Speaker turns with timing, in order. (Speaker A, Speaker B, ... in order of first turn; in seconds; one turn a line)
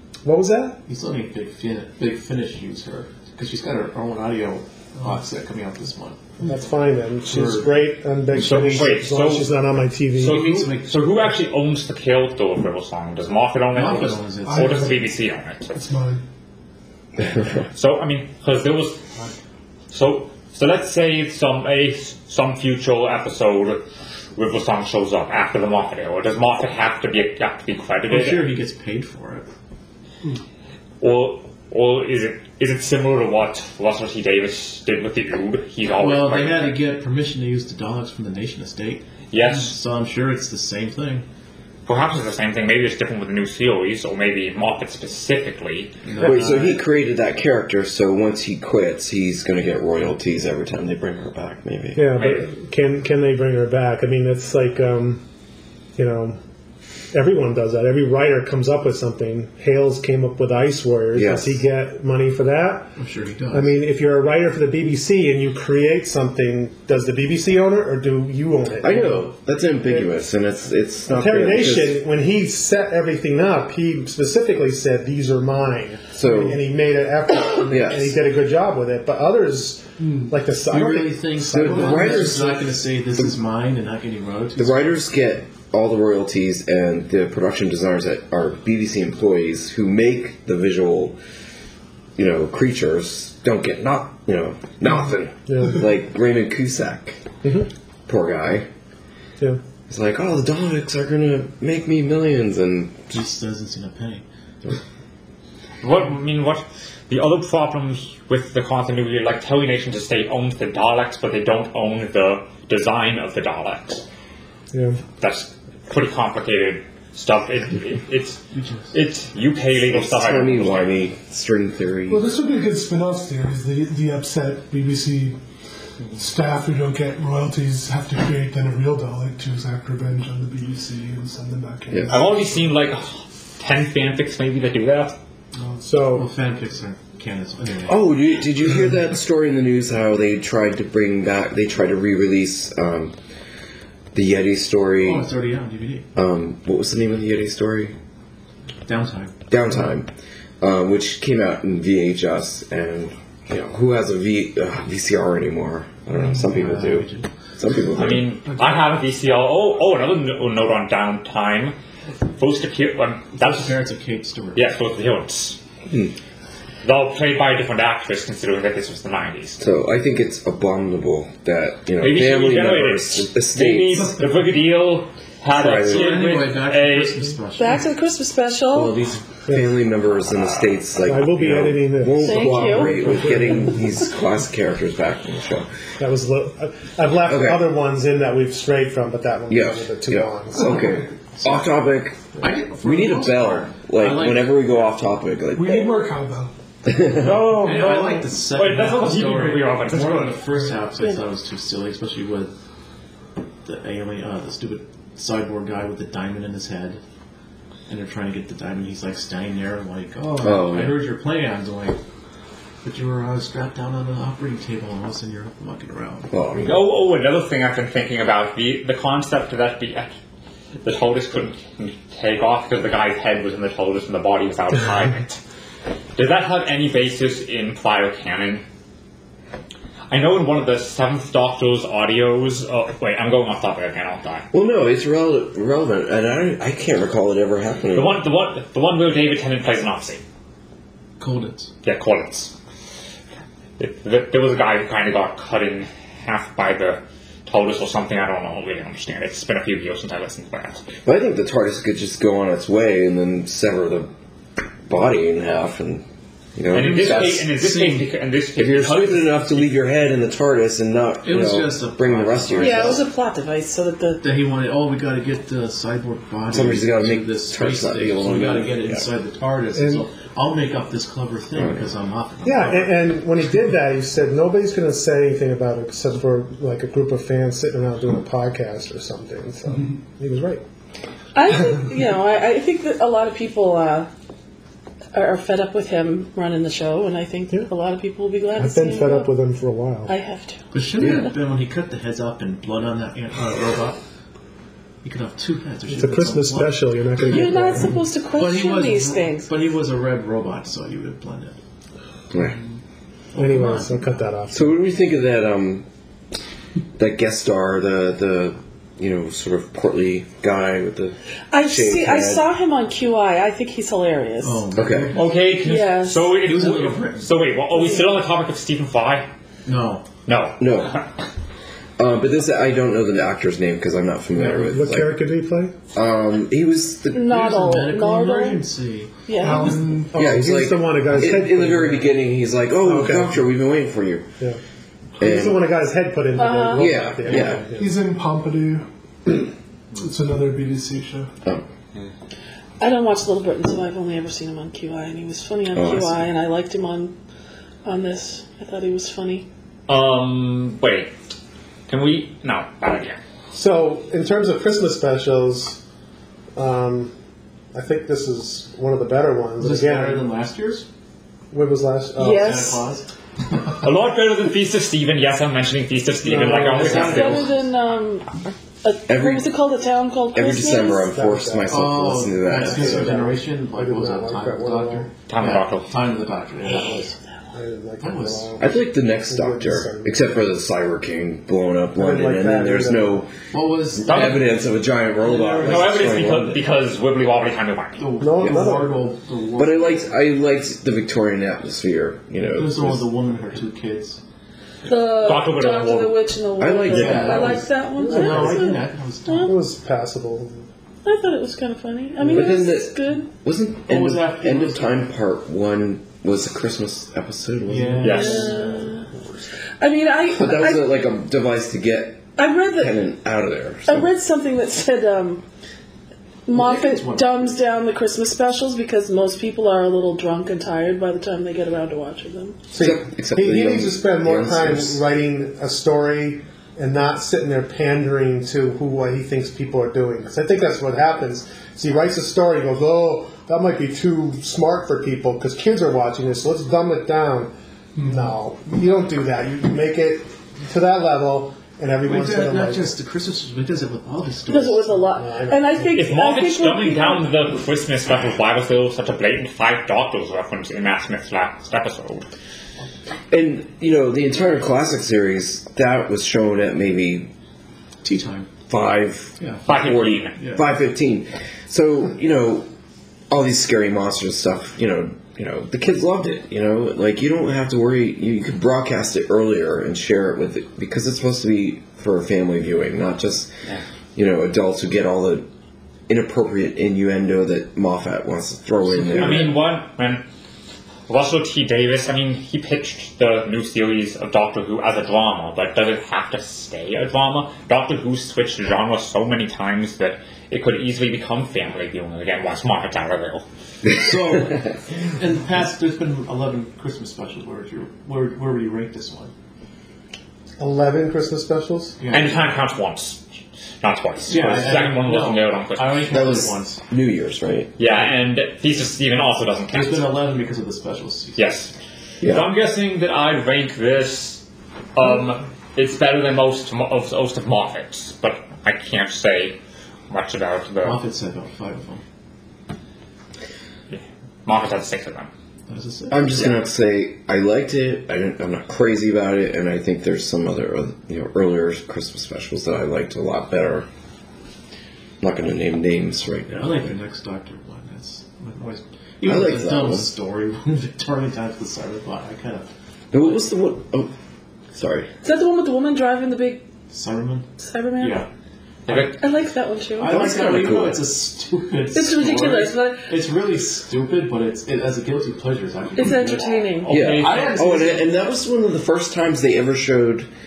Speaker A: 0.2-0.8
Speaker B: 0.9-6.2
Speaker A: 6.5-10.4
Speaker B: 7.3-7.8
Speaker C: 8.3-9.5
Speaker C: 10.1-15.7
Speaker B: 10.2-11.2
Speaker B: 13.7-14.9
Speaker D: 14.4-15.0
Speaker D: 15.7-16.2
Speaker C: 17.7-19.1
Speaker C: 19.9-23.8
Speaker C: 24.4-28.5
Speaker B: 28.1-29.5
Speaker C: 31.0-36.8
Speaker B: 36.0-41.2
Speaker C: 39.3-39.8
Speaker C: 41.9-46.8
Speaker B: 46.0-46.8
Speaker E: 46.2-52.1
Speaker A: 51.9-55.2
Speaker C: 52.2-52.5
Speaker A: 56.0-56.4
Speaker A: 57.1-62.9
Speaker E: 61.1-61.6
Speaker B: 63.0-63.7
Speaker A: 63.5-69.3
Speaker E: 68.8-72.0
Speaker A: 71.1-82.3
Speaker E: 76.1-76.6
Speaker E: 77.7-78.2
Speaker D: 80.0-80.3
Speaker B: 80.7-84.9
Speaker E: 81.5-82.7
Speaker E: 84.6-91.2
Speaker E: 92.2-97.2
Speaker A: 95.5-95.8
Speaker A: 97.4-97.7
Speaker E: 98.1-98.7
Speaker E: 99.9-103.2
Speaker B: 103.1-104.2
Speaker C: 105.8-114.0
Speaker A: 114.7-115.0
Speaker C: 115.2-118.4
Speaker B: 118.5-118.9
Speaker C: 118.9-121.0
Speaker E: 119.8-122.2
Speaker D: 122.1-125.4
Speaker D: 126.1-132.7
Speaker C: 132.1-135.1
Speaker A: 135.8-136.3
Speaker B: 136.0-138.0
Speaker E: 137.9-143.2
Speaker E: 144.1-145.2
Speaker B: 145.0-146.1
Speaker E: 146.1-147.9
Speaker B: 148.8-149.3
Speaker E: 149.5-150.1
Speaker E: 150.6-158.2
Speaker B: 156.1-157.3
Speaker C: 157.9-161.8
Speaker C: 162.3-163.8
Speaker B: 163.4-164.7
Speaker C: 164.5-165.6
Speaker E: 165.9-166.1
Speaker C: 166.8-169.6
Speaker E: 169.6-174.1
Speaker C: 172.0-177.3
Speaker E: 175.5-176.1
Speaker B: 175.8-177.9
Speaker F: 177.6-178.9
Speaker E: 178.7-185.7
Speaker A: 179.5-179.8
Speaker A: 181.0-183.8
Speaker F: 182.2-183.1
Speaker A: 186.0-190.8
Speaker E: 187.2-187.7
Speaker E: 189.5-195.9
Speaker B: 191.4-191.7
Speaker B: 192.4-194.9
Speaker D: 195.5-196.5
Speaker E: 196.8-197.5
Speaker C: 197.1-200.4
Speaker B: 197.5-202.5
Speaker B: 203.6-207.0
Speaker B: 207.9-212.0
Speaker E: 210.4-211.0
Speaker B: 212.8-216.3
Speaker E: 216.3-216.9
Speaker C: 216.6-220.1
Speaker C: 220.8-225.4
Speaker C: 226.2-228.6
Speaker C: 230.1-234.5
Speaker E: 234.5-238.2
Speaker C: 237.9-240.2
Speaker B: 241.2-241.7
Speaker C: 241.8-242.5
Speaker C: 243.8-250.9
Speaker E: 251.0-254.1
Speaker E: 254.9-256.0
Speaker E: 256.6-257.5
Speaker C: 256.7-259.7
Speaker B: 256.7-258.1
Speaker E: 258.6-263.0
Speaker B: 261.2-263.0
Speaker F: 262.6-264.2
Speaker B: 264.2-273.0
Speaker E: 266.5-269.1
Speaker A: 269.8-270.0
Speaker A: 272.4-280.6
Speaker F: 281.3-284.1
Speaker F: 285.1-289.3
Speaker A: 288.6-290.1
Speaker F: 290.1-291.3
Speaker B: 290.7-294.0
Speaker E: 291.0-291.3
Speaker B: 295.0-297.6
Speaker A: 295.9-298.0
Speaker F: 297.3-299.5
Speaker B: 298.3-301.6
Speaker E: 302.3-302.6
Speaker B: 303.3-304.1
Speaker A: 303.3-304.7
Speaker E: 304.5-305.9
Speaker E: 307.0-312.4
Speaker F: 311.5-314.6
Speaker B: 314.4-315.4
Speaker E: 314.7-315.1
Speaker C: 315.1-319.3
Speaker F: 315.6-316.3
Speaker B: 316.4-317.4
Speaker F: 317.7-318.0
Speaker B: 319.6-320.1
Speaker C: 320.2-321.1
Speaker E: 320.6-321.0
Speaker E: 322.0-325.2
Speaker B: 324.3-324.7
Speaker A: 324.6-325.7
Speaker E: 325.9-327.3
Speaker F: 327.1-328.6
Speaker B: 327.1-329.7
Speaker F: 329.2-329.8
Speaker D: 329.4-330.3
Speaker A: 329.7-332.1
Speaker E: 330.1-334.2
Speaker A: 332.8-333.4
Speaker E: 335.2-335.7
Speaker A: 335.2-338.0
Speaker F: 336.4-336.8
Speaker E: 336.7-337.6
Speaker B: 337.2-337.6
Speaker D: 337.8-341.3
Speaker F: 342.8-347.1
Speaker E: 345.7-346.3
Speaker F: 347.8-349.4
Speaker C: 349.9-351.1
Speaker C: 351.9-353.2
Speaker A: 353.5-355.8
Speaker A: 356.6-357.1
Speaker A: 357.7-360.3
Speaker B: 359.6-360.9
Speaker A: 361.5-362.6
Speaker F: 362.2-362.8
Speaker B: 362.2-363.1
Speaker C: 363.8-367.6
Speaker B: 366.2-367.6
Speaker F: 366.7-371.1
Speaker E: 369.1-369.4
Speaker E: 370.3-373.2
Speaker A: 371.1-375.1
Speaker B: 371.7-377.1
Speaker C: 375.3-376.0
Speaker A: 377.5-380.3
Speaker B: 378.0-378.6
Speaker E: 378.6-383.3
Speaker A: 381.9-383.2
Speaker B: 383.5-386.2
Speaker E: 384.0-386.6
Speaker C: 384.0-384.4
Speaker C: 385.6-388.0
Speaker B: 388.0-390.1
Speaker A: 388.2-389.1
Speaker E: 388.4-388.7
Speaker E: 389.6-393.0
Speaker B: 392.5-394.2
Speaker F: 394.9-399.5
Speaker C: 395.2-396.2
Speaker E: 396.6-397.7
Speaker B: 396.9-399.6
Speaker A: 398.0-398.8
Speaker A: 399.4-400.6
Speaker F: 401.0-403.3
Speaker A: 402.2-402.5
Speaker E: 402.3-408.3
Speaker B: 403.9-404.9
Speaker B: 407.6-408.9
Speaker C: 408.0-408.4
Speaker F: 408.0-409.1
Speaker F: 409.8-410.9
Speaker E: 410.3-414.1
Speaker F: 412.4-413.0
Speaker F: 413.9-415.4
Speaker F: 416.4-422.6
Speaker B: 416.5-417.5
Speaker A: 422.7-442.9
Speaker E: 422.8-425.0
Speaker D: 438.0-438.3
Speaker B: 442.0-445.0
Speaker F: 444.5-447.2
Speaker A: 445.1-446.0
Speaker C: 445.9-452.2
Speaker E: 453.3-457.3
Speaker B: 458.0-458.5
Speaker E: 458.7-462.7
Speaker B: 459.4-459.6
Speaker C: 459.6-460.4
Speaker B: 460.3-460.6
Speaker E: 463.3-473.5
Speaker E: 474.1-475.5
Speaker E: 476.1-479.5
Speaker B: 478.8-479.6
Speaker C: 479.1-480.2
Speaker C: 481.1-493.4
Speaker B: 493.9-499.3
Speaker A: 500.6-502.0
Speaker B: 502.0-502.4
Speaker C: 502.1-503.2
Speaker C: 503.8-506.3
Speaker B: 504.2-506.8
Speaker E: 506.1-507.8
Speaker C: 507.8-510.1
Speaker B: 509.7-511.5
Speaker C: 511.4-519.6
Speaker E: 512.2-512.5
Speaker C: 520.1-521.0
Speaker B: 520.8-522.0
Speaker C: 523.9-525.3
Speaker B: 525.7-526.4
Speaker E: 526.1-533.9
Speaker E: 535.2-536.9
Speaker B: 536.5-542.7
Speaker E: 539.2-540.1
Speaker E: 543.1-544.1
Speaker E: 544.7-545.1
Speaker F: 545.2-546.6
Speaker B: 546.9-548.3
Speaker F: 547.6-548.2
Speaker C: 548.9-549.2
Speaker F: 548.9-550.3
Speaker B: 550.0-558.1
Speaker E: 550.0-551.0
Speaker F: 551.9-553.1
Speaker F: 556.0-556.9
Speaker C: 556.8-557.6
Speaker E: 556.9-560.3